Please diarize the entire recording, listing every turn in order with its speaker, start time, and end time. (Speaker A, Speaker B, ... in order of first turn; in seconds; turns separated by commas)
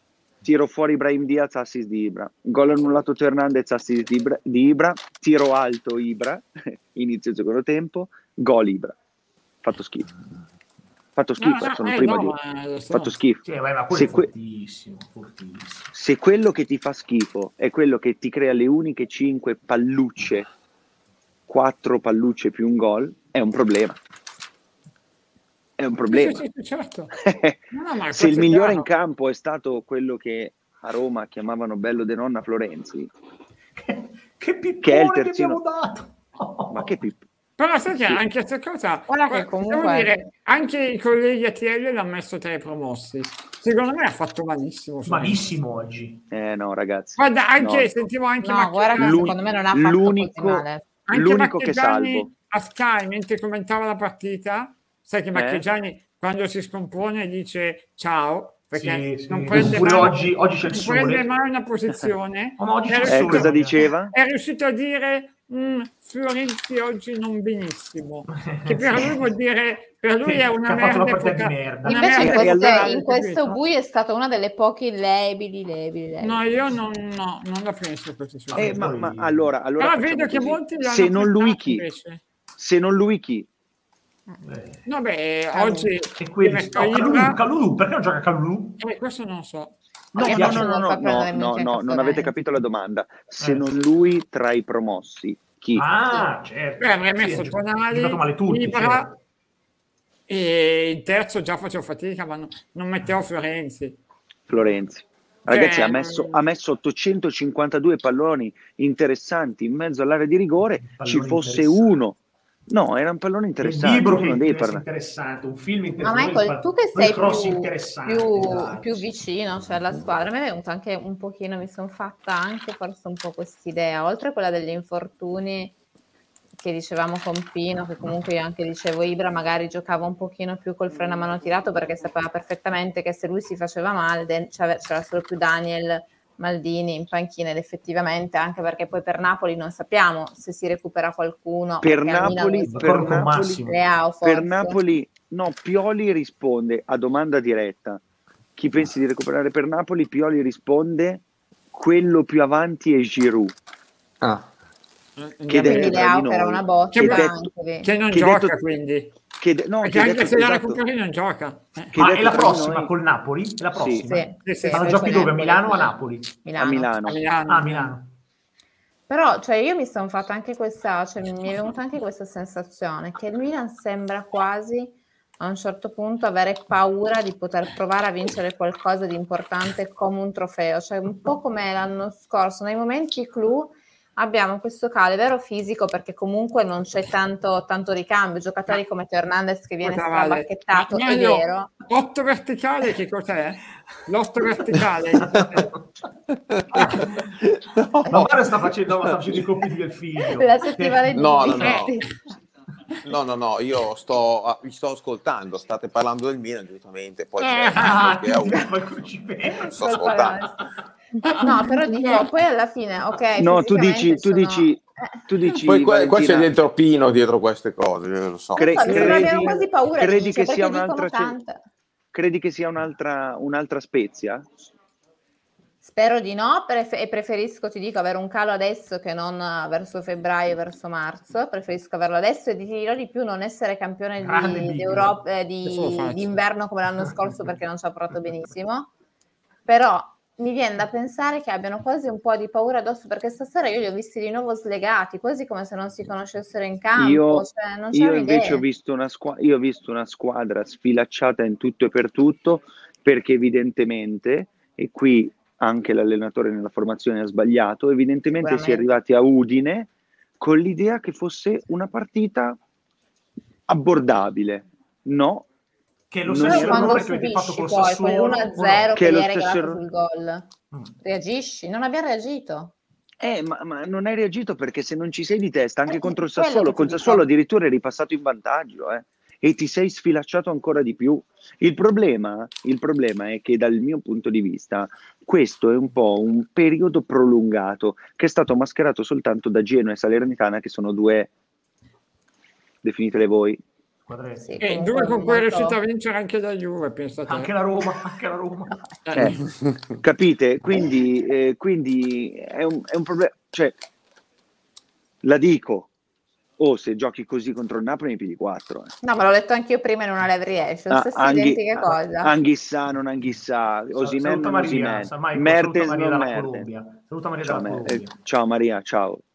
Speaker A: 0.4-8.9, Speaker A: 9.6-10.1, Speaker A: 11.2-12.3, Speaker B: 11.4-13.1, Speaker A: 12.9-14.3, Speaker C: 13.4-15.9, Speaker A: 15.9-20.5, Speaker A: 21.5-24.0, Speaker A: 25.8-26.4, Speaker B: 26.1-27.1, Speaker A: 27.1-33.1, Speaker B: 27.7-28.9, Speaker C: 33.8-37.0, Speaker A: 34.8-35.6, Speaker A: 36.7-37.2, Speaker B: 37.6-45.5, Speaker D: 39.1-40.2, Speaker C: 45.0-46.2, Speaker A: 46.3-47.9, Speaker B: 47.2-49.3, Speaker D: 48.4-50.8, Speaker A: 48.9-52.3, Speaker B: 51.1-73.5, Speaker A: 55.3-55.6, Speaker C: 58.7-61.3, Speaker C: 62.6-63.8, Speaker A: 63.0-64.1, Speaker C: 68.4-69.2, Speaker C: 70.2-72.2, Speaker D: 71.8-76.5, Speaker A: 72.1-72.9, Speaker B: 76.2-78.8, Speaker C: 78.5-79.5, Speaker A: 78.5-81.8, Speaker B: 79.8-82.2, Speaker A: 82.6-83.5, Speaker C: 84.4-84.8, Speaker B: 84.8-87.4, Speaker D: 85.5-85.9, Speaker C: 86.2-88.8, Speaker B: 88.8-89.8, Speaker A: 90.1-95.8, Speaker D: 90.2-92.3, Speaker C: 90.3-90.7, Speaker C: 93.4-93.6, Speaker C: 95.7-99.2, Speaker B: 96.8-99.1, Speaker B: 100.3-104.0, Speaker A: 104.5-114.8, Speaker B: 105.5-106.4, Speaker C: 110.8-112.0, Speaker C: 113.6-119.0, Speaker D: 116.0-125.8, Speaker D: 126.6-143.1, Speaker A: 141.8-143.7, Speaker C: 142.7-143.8, Speaker D: 143.7-144.8, Speaker A: 144.2-148.0, Speaker A: 148.6-153.5, Speaker B: 155.2-156.0, Speaker A: 155.5-157.5, Speaker D: 155.6-157.9, Speaker B: 156.9-157.3, Speaker B: 157.8-159.2, Speaker A: 158.1-158.6, Speaker A: 159.4-160.8, Speaker B: 159.8-161.9, Speaker A: 161.9-162.9, Speaker C: 161.9-166.4, Speaker A: 163.7-164.0, Speaker D: 164.0-165.9, Speaker B: 164.4-165.1, Speaker D: 166.4-166.9, Speaker A: 166.5-167.2, Speaker B: 167.1-167.9, Speaker C: 167.5-168.1, Speaker D: 169.1-191.7, Speaker B: 189.8-195.7, Speaker C: 195.2-195.8, Speaker E: 196.5-198.3, Speaker C: 198.1-201.6, Speaker E: 199.0-199.4, Speaker D: 200.3-202.2, Speaker E: 201.1-202.0, Speaker B: 201.6-201.9, Speaker E: 203.0-208.7, Speaker B: 207.4-208.0, Speaker C: 207.7-209.8, Speaker D: 209.6-210.6, Speaker E: 209.6-210.4, Speaker B: 211.2-212.2, Speaker D: 211.4-215.2, Speaker A: 213.4-216.5, Speaker E: 215.6-219.3, Speaker A: 218.6-221.4, Speaker D: 218.6-221.6, Speaker A: 222.1-224.4, Speaker D: 225.8-238.9, Speaker C: 234.2-235.2, Speaker B: 235.6-236.3, Speaker D: 239.7-248.6, Speaker A: 246.9-262.6, Speaker D: 258.4-258.9, Speaker A: 263.7-265.5, Speaker C: 266.1-268.9, Speaker A: 266.2-267.0, Speaker D: 266.4-270.5, Speaker A: 268.9-269.8, Speaker D: 271.0-272.7, Speaker A: 273.2-291.3, Speaker D: 275.9-277.2, Speaker A: 292.8-293.6, Speaker C: 294.1-294.6, Speaker D: 294.4-295.8, Speaker B: 294.6-297.5, Speaker C: 297.2-298.8, Speaker B: 299.1-299.4, Speaker A: 300.0-303.8, Speaker A: 305.2-305.9, Speaker A: 306.6-308.9, Speaker D: 309.0-312.3, Speaker A: 310.9-316.7, Speaker C: 313.9-318.2, Speaker A: 317.4-319.2